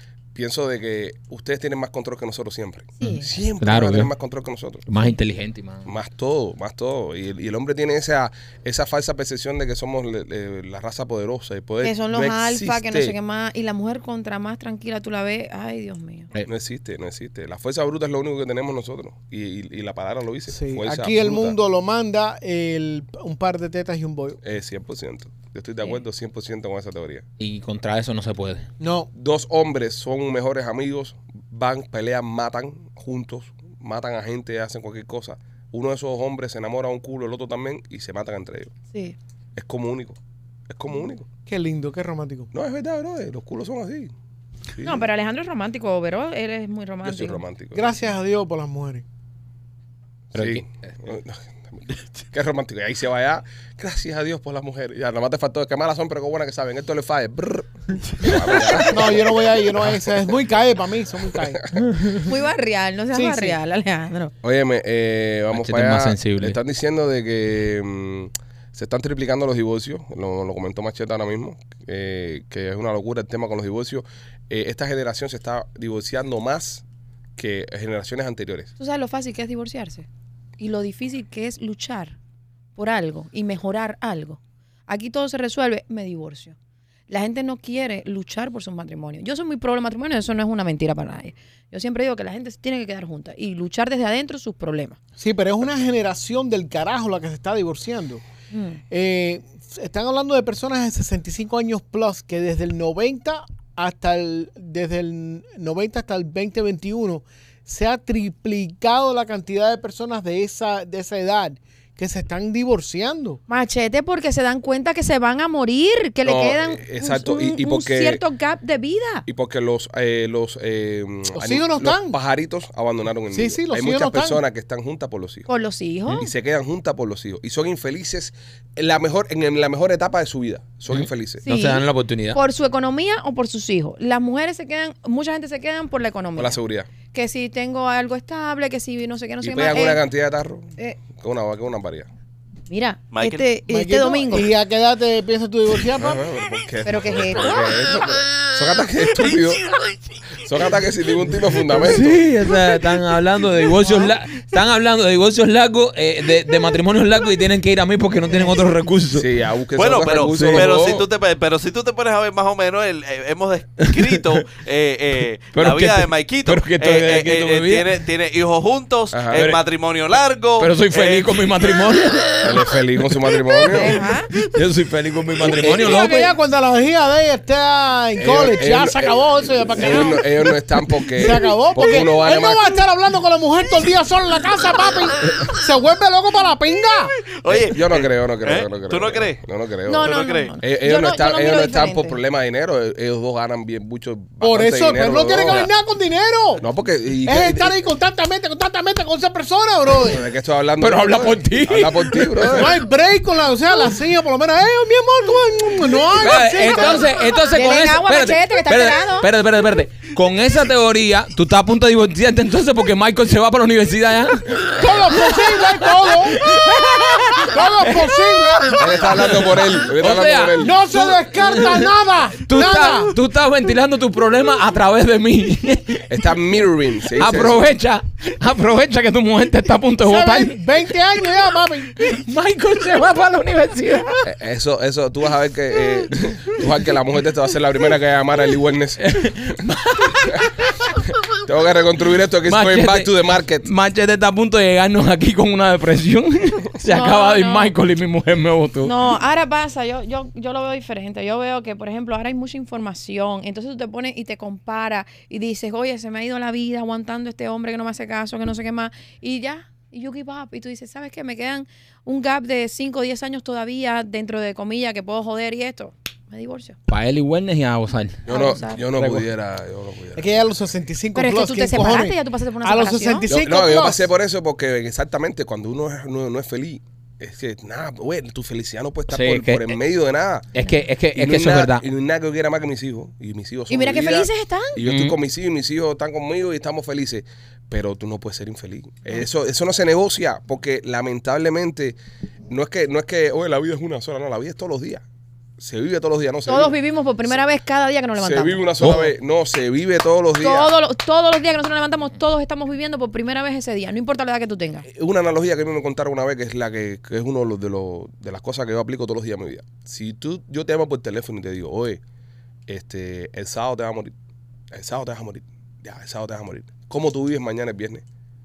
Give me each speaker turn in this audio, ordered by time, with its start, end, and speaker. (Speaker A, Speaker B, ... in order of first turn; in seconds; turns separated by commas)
Speaker A: 0.3-4.8, Speaker B: 3.0-3.3, Speaker C: 3.0-4.1, Speaker C: 4.9-5.9, Speaker A: 5.8-13.2, Speaker B: 11.8-16.3, Speaker A: 16.4-21.6, Speaker D: 20.5-24.4, Speaker A: 24.4-27.2, Speaker C: 27.4-28.6, Speaker D: 28.8-29.1, Speaker A: 29.1-38.7, Speaker B: 38.9-39.1, Speaker A: 39.5-40.2, Speaker A: 40.7-41.2, Speaker D: 41.5-42.5, Speaker A: 42.5-44.1, Speaker A: 44.7-45.1, Speaker B: 44.8-47.4, Speaker A: 47.0-47.8, Speaker D: 47.7-49.0, Speaker C: 50.3-50.8, Speaker A: 50.3-59.3, Speaker B: 58.6-58.9, Speaker D: 58.9-62.2, Speaker A: 61.5-61.8, Speaker B: 62.1-64.3, Speaker D: 63.1-63.6, Speaker A: 64.4-76.8, Speaker C: 65.5-66.6, Speaker A: 77.4-78.7, Speaker B: 78.8-80.1, Speaker B: 80.6-82.2, Speaker B: 82.8-86.5, Speaker B: 87.1-95.0, Speaker D: 95.2-98.2, Speaker B: 98.5-98.8, Speaker D: 98.9-113.4, Speaker B: 113.5-119.2, Speaker A: 116.2-118.2, Speaker A: 119.3-125.5, Speaker D: 121.3-122.2, Speaker D: 123.3-124.4, Speaker B: 125.5-126.3, Speaker A: 126.1-131.4, Speaker C: 130.9-132.4, Speaker B: 131.4-140.0, Speaker A: 136.3-136.9, Speaker A: 139.4-142.1, Speaker B: 142.7-144.5, Speaker E: 143.1-143.4, Speaker D: 143.7-146.2, Speaker A: 146.0-149.6, Speaker B: 146.8-147.7, Speaker A: 150.4-152.2, Speaker C: 151.7-159.2, Speaker B: 153.8-154.1, Speaker A: 159.1-161.0, Speaker E: 159.8-171.8, Speaker C: 160.3-160.8, Speaker C: 163.8-164.2, Speaker C: 165.5-167.9, Speaker A: 169.1-169.4, Speaker C: 169.3-169.6, Speaker C: 170.6-172.7, Speaker A: 172.4-174.0, Speaker C: 173.3-173.7, Speaker B: 173.7-174.3, Speaker C: 174.3-176.3, Speaker D: 175.5-187.1, Speaker A: 178.2-182.8, Speaker C: 181.7-182.1, Speaker E: 187.2-189.4, Speaker A: 187.5-195.7, Speaker B: 189.8-192.2, Speaker E: 190.0-190.6, Speaker D: 194.4-196.6, Speaker A: 196.6-197.8, Speaker D: 197.2-200.2, Speaker A: 200.1-202.8, Speaker C: 200.8-202.7, Speaker D: 202.5-207.1, Speaker C: 206.1-226.2, Speaker B: 206.7-209.3, Speaker D: 214.7-216.5, Speaker D: 217.4-219.5, Speaker A: 218.8-220.7, Speaker D: 220.6-223.1, Speaker A: 226.1-227.7, Speaker C: 227.1-230.6, Speaker D: 230.0-232.1, Speaker C: 231.1-234.2, Speaker A: 234.2-239.1, Speaker C: 239.0-241.0, Speaker A: 241.4-243.7, Speaker C: 242.4-249.0, Speaker B: 246.8-247.7, Speaker B: 248.8-266.8, Speaker C: 266.9-268.2, Speaker A: 268.2-270.4, Speaker B: 268.3-268.8, Speaker D: 268.9-269.2, Speaker D: 270.1-274.1, Speaker B: 271.1-273.3, Speaker A: 273.3-280.5, Speaker C: 279.1-279.8, Speaker C: 280.5-281.8, Speaker A: 281.1-292.0, Speaker B: 283.7-284.8, Speaker C: 284.8-285.1, Speaker A: 292.5-295.0, Speaker A: 295.6-296.8, Speaker B: 296.4-298.8, Speaker A: 298.2-300.7, Speaker C: 298.8-299.1, Speaker B: 300.4-304.9, Speaker A: 304.9-312.0, Speaker A: 312.7-314.1, Speaker A: 314.7-318.0